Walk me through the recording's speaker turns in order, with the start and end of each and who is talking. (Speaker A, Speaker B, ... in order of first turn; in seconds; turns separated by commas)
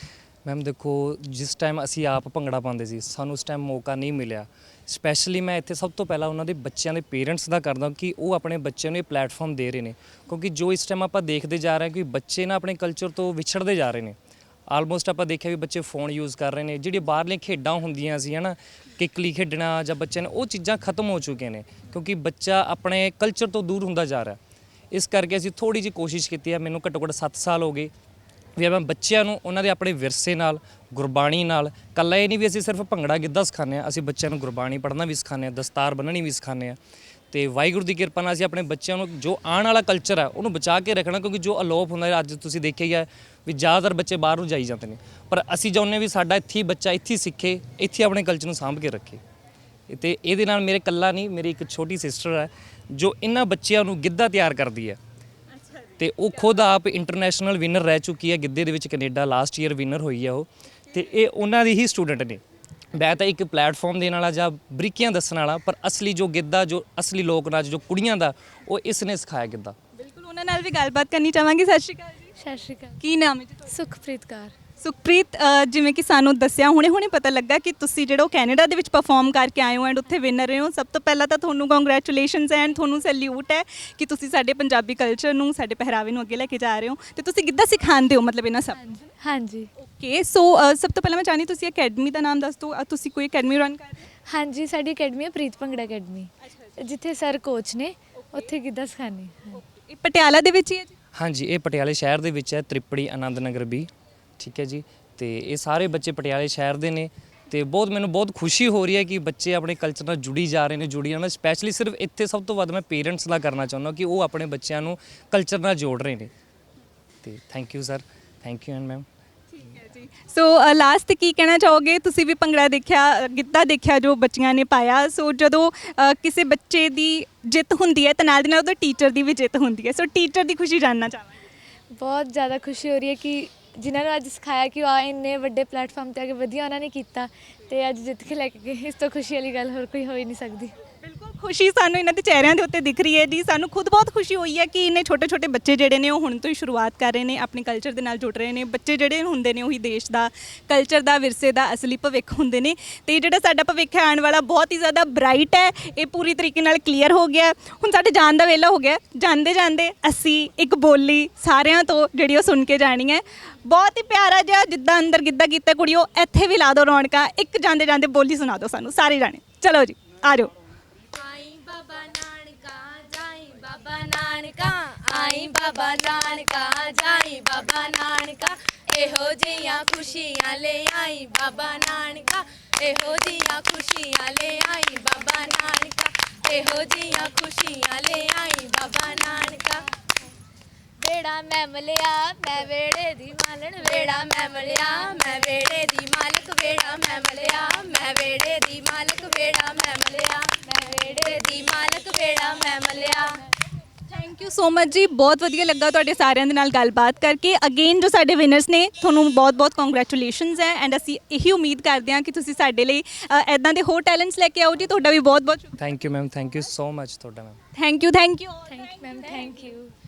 Speaker A: 0.4-14.2, Speaker A: 14.7-24.4, Speaker A: 24.9-27.9, Speaker A: 28.6-36.8, Speaker A: 37.3-49.2, Speaker A: 49.9-55.0, Speaker A: 56.0-62.4, Speaker A: 62.9-69.7, Speaker B: 70.0-72.3, Speaker C: 72.4-73.0, Speaker B: 73.0-73.7, Speaker C: 73.7-74.5, Speaker B: 74.8-88.8, Speaker C: 88.7-89.7, Speaker B: 89.8-94.1, Speaker C: 94.3-99.6, Speaker B: 96.5-96.7, Speaker B: 98.2-98.5, Speaker B: 99.5-100.9, Speaker A: 101.2-116.3, Speaker A: 117.2-119.0, Speaker B: 119.6-131.3, Speaker C: 131.9-140.7, Speaker B: 141.0-170.5, Speaker D: 171.2-189.8, Speaker C: 181.6-182.2, Speaker C: 182.9-183.9, Speaker C: 185.4-185.8, Speaker C: 187.3-188.5, Speaker C: 189.2-189.4, Speaker C: 191.0-196.4, Speaker D: 191.1-191.5, Speaker D: 192.4-200.6, Speaker C: 197.0-197.8, Speaker C: 198.9-201.1, Speaker D: 201.3-203.3, Speaker C: 201.7-202.6, Speaker B: 204.1-215.7, Speaker A: 215.8-217.6, Speaker B: 217.8-219.7, Speaker C: 218.7-219.9